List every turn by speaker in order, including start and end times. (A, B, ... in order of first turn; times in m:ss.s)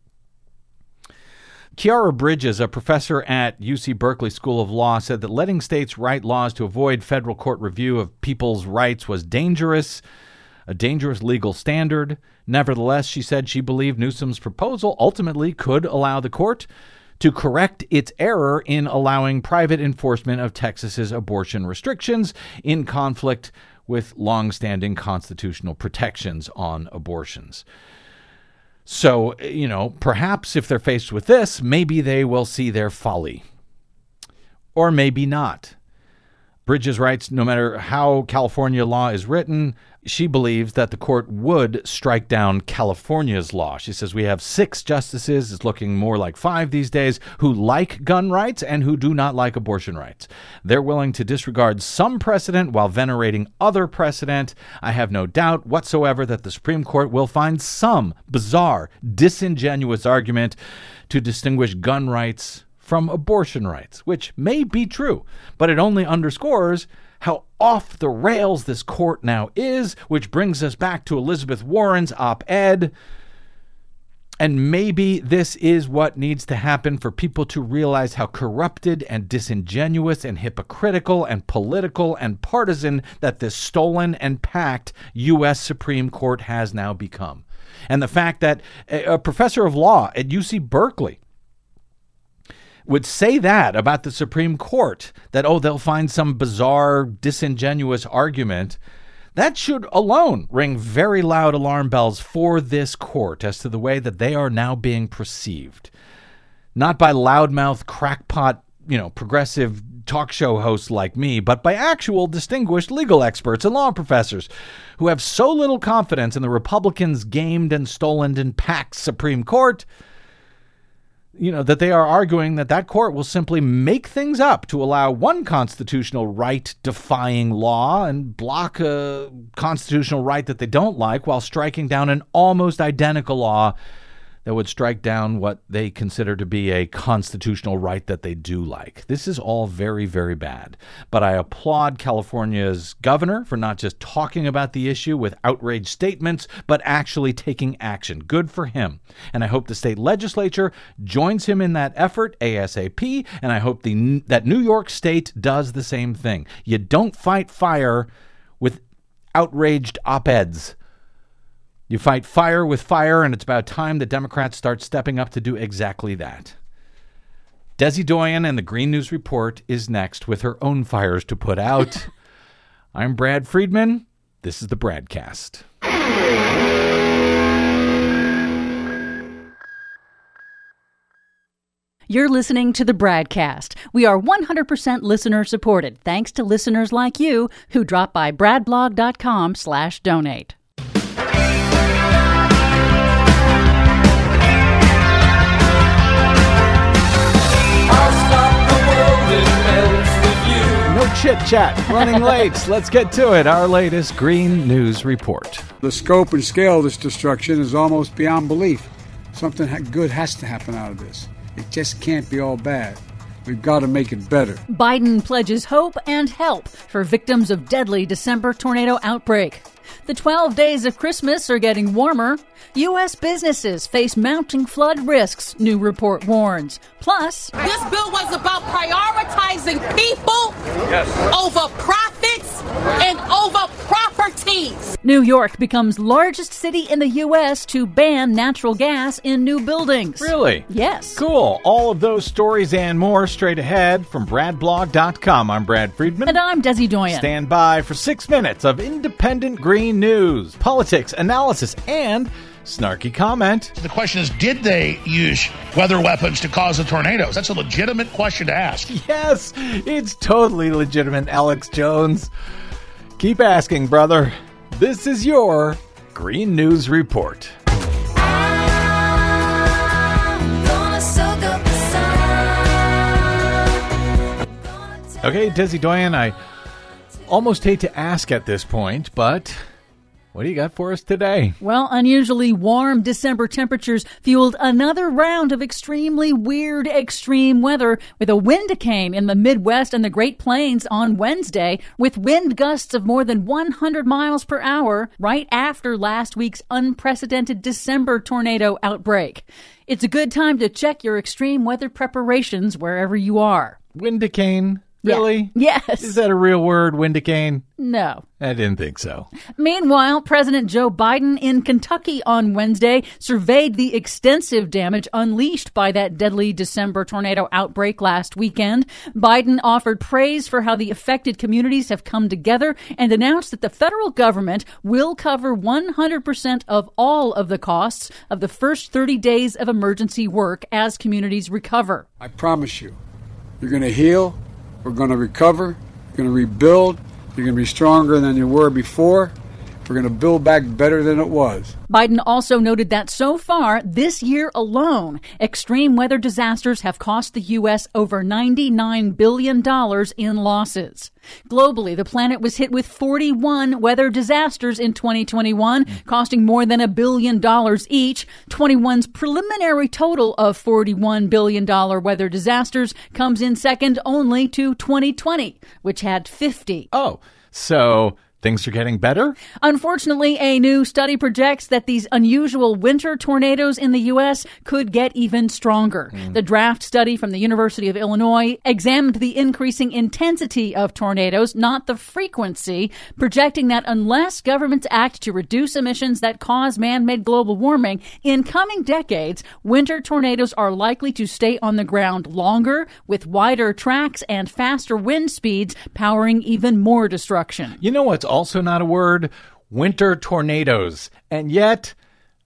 0:01.8-0:10.0 A
0:10.7-0:16.7 A
0:17.2-0:27.6 A
0:28.9-0:33.4 A
0:34.8-0:35.8 A
0:36.7-1:00.6 A
1:01.1-1:12.9 A
1:14.4-1:31.2 A
1:32.9-1:38.8 A
1:39.4-1:45.9 A
1:46.8-1:59.9 A
2:01.4-2:13.8 A
2:14.4-2:38.8 A
2:39.4-2:40.8 A
2:41.9-2:46.6 A
2:47.8-2:52.1 A
2:52.9-2:55.6 A
3:02.1-3:10.6 B
3:20.8-3:25.7 A
3:25.8-3:34.6 C
3:34.7-3:47.5 B
3:47.6-3:50.6 D
3:50.9-3:51.2 C
3:51.3-3:54.9 D
3:55.0-4:01.2 B
4:00.2-4:06.4 A
4:06.3-4:07.3 B
4:07.1-4:13.7 A
4:13.8-4:18.9 E
4:18.9-4:22.3 A
4:23.2-4:27.6 A
4:31.0-4:31.9 B
4:35.2-4:36.4 A
4:37.3-4:39.6 A
4:40.3-4:41.6 A
4:41.6-5:03.8 B
5:04.0-5:07.6 A
5:05.0-5:06.2 B
5:07.8-5:08.2 B
5:08.4-5:09.3 A
5:09.6-5:32.1 B
5:32.2-5:33.0 C
5:33.6-5:41.8 C
5:41.9-6:06.9 B
6:06.9-6:09.4 A
6:09.6-6:37.8 B
6:37.8-6:42.0 A